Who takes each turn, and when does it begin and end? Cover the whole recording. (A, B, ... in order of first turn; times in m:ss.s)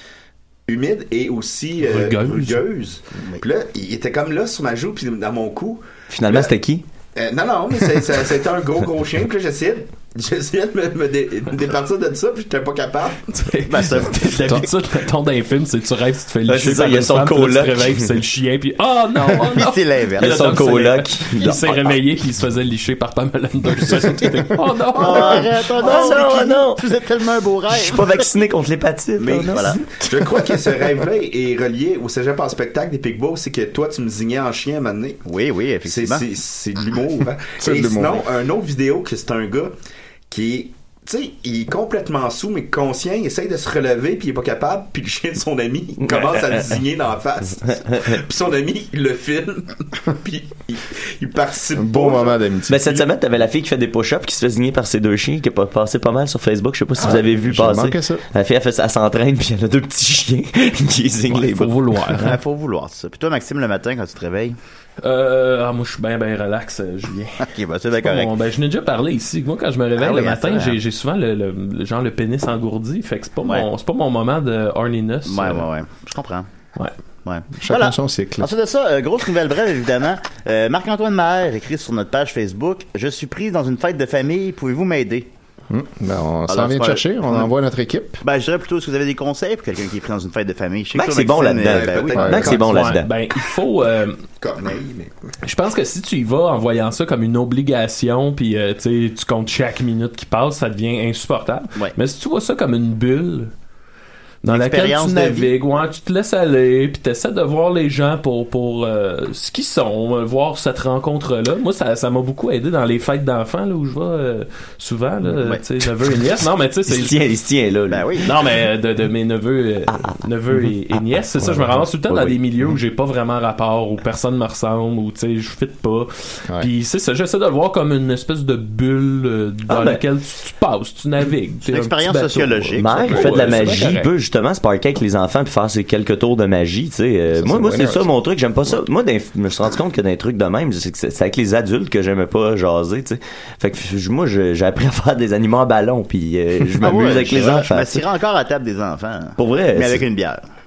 0:00.7-0:06.5 A
0:01.8-0:02.6 B
0:06.1-0:06.8 C
0:07.2-0:13.4 A
0:13.3-0:25.5 B
0:13.7-0:14.6 D
0:16.4-0:18.1 C
0:19.3-0:20.6 D
0:20.2-0:21.9 C
0:24.9-0:28.3 D
0:25.2-0:26.8 C
0:27.7-0:29.8 C
0:29.2-0:35.2 A
0:29.5-0:29.8 D
0:35.2-0:36.2 D
0:35.8-0:39.7 A
0:37.6-0:38.2 E
0:40.3-0:52.4 A
0:46.0-0:46.8 C
0:47.8-0:48.2 C
0:51.8-0:53.0 E
0:52.7-1:01.8 C
0:57.0-0:58.2 E
1:01.3-1:02.3 B
1:02.2-1:04.6 D
1:05.0-1:15.6 B
1:07.4-1:08.3 D
1:10.0-1:10.8 D
1:15.2-1:16.5 D
1:17.2-1:25.3 D
1:17.6-1:18.5 E
1:25.7-1:28.2 E
1:26.5-1:27.5 D
1:28.2-1:32.5 D
1:30.9-1:33.1 C
1:31.6-1:32.8 A
1:32.2-1:32.5 E
1:32.4-1:34.2 B
1:34.4-1:35.1 A
1:35.4-1:43.5 B
1:44.4-1:57.2 B
1:44.4-1:45.5 D
1:56.9-1:58.1 C
1:57.9-1:58.3 D
1:58.2-2:14.1 B
1:59.9-2:00.2 C
2:01.5-2:01.8 E
2:02.1-2:02.3 C
2:09.7-2:10.0 C
2:11.6-2:13.9 D
2:12.8-2:28.0 C
2:17.3-2:18.1 E
2:26.8-2:30.4 D
2:29.4-2:30.0 C